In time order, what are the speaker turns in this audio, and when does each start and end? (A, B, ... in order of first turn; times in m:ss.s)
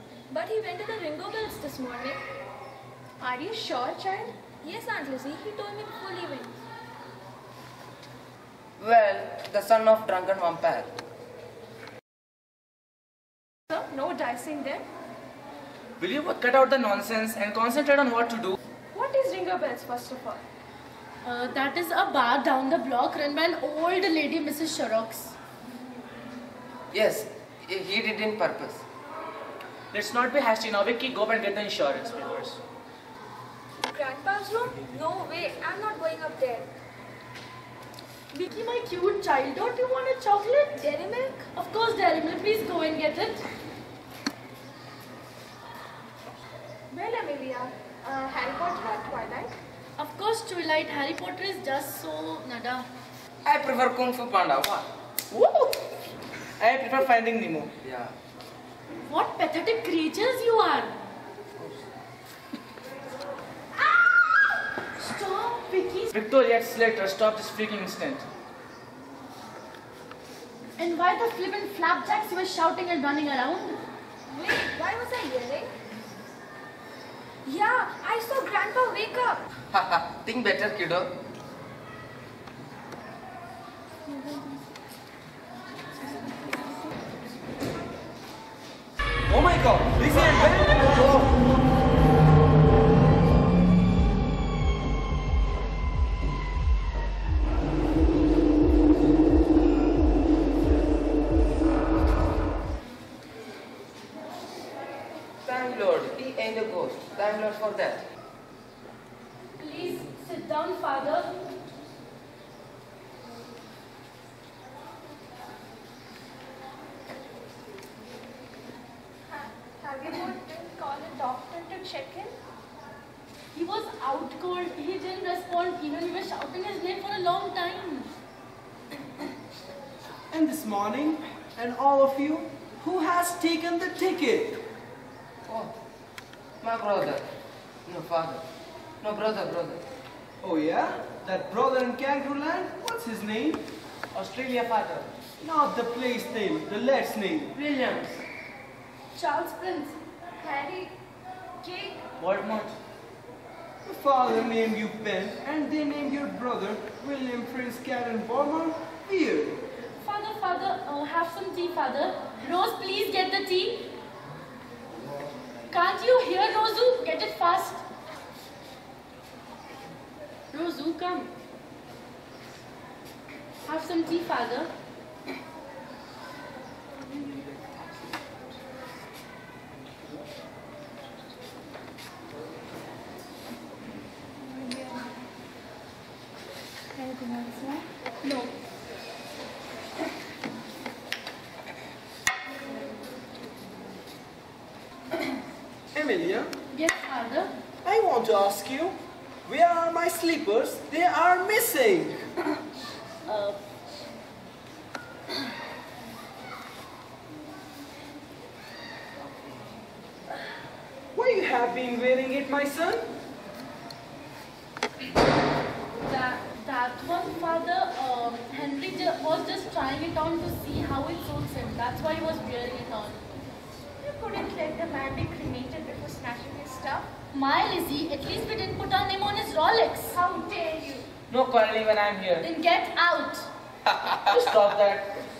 0:00.3-0:02.2 A
0:03.2-0:06.5 A
0:08.8-0:10.9 B
0:13.7-0:14.8 A
0:16.0-0:18.6 C
0:18.9-0:20.4 A
0:21.2-0:25.3 D
0:26.9-0:28.8 B
0:29.9-0:32.6 C
0:33.9-0:36.7 A
0:38.3-0:40.8 D
0:40.8-0:41.4 A
0:41.5-0:43.4 D
0:46.9-0:49.5 A
0:50.0-0:52.8 D
0:53.4-0:54.9 B
0:56.6-0:57.8 C
0:57.8-0:58.1 B
0:59.0-1:00.9 D
1:05.0-1:06.1 D
1:06.1-1:08.3 C
1:10.8-1:13.8 D
1:14.3-1:15.7 A
1:17.4-1:19.4 A
1:19.7-1:21.1 B
1:29.3-1:31.3 E
1:45.4-1:48.0 B
1:49.6-1:51.3 D
1:59.3-2:02.3 A
2:03.5-2:08.1 D
2:10.3-2:14.6 E
2:15.5-2:15.7 B
2:16.6-2:17.2 B
2:17.8-2:18.4 B
2:19.0-2:19.8 B
2:20.4-2:23.7 E
2:24.1-2:25.1 C
2:25.4-2:27.5 E
2:27.5-2:28.1 C
2:29.1-2:30.0 D
2:30.4-2:30.9 A
2:31.6-2:32.0 A
2:32.2-2:32.7 C
2:33.8-2:39.6 E
2:39.9-2:43.9 D
2:45.7-2:47.8 D
2:50.5-2:51.3 D
2:53.6-2:54.7 D
3:04.4-3:05.1 A
3:06.9-3:07.8 A
3:08.2-3:08.5 D
3:15.9-3:16.5 E
3:16.7-3:17.5 D
3:17.8-3:19.0 E
3:19.5-3:22.2 E
3:23.2-3:23.6 D
3:31.1-3:33.1 E
3:36.0-3:43.2 D
3:44.0-3:47.1 A
3:47.3-3:50.2 D
3:50.1-3:51.1 A
3:51.3-3:52.5 C
3:52.4-3:53.5 D
3:54.1-3:55.2 C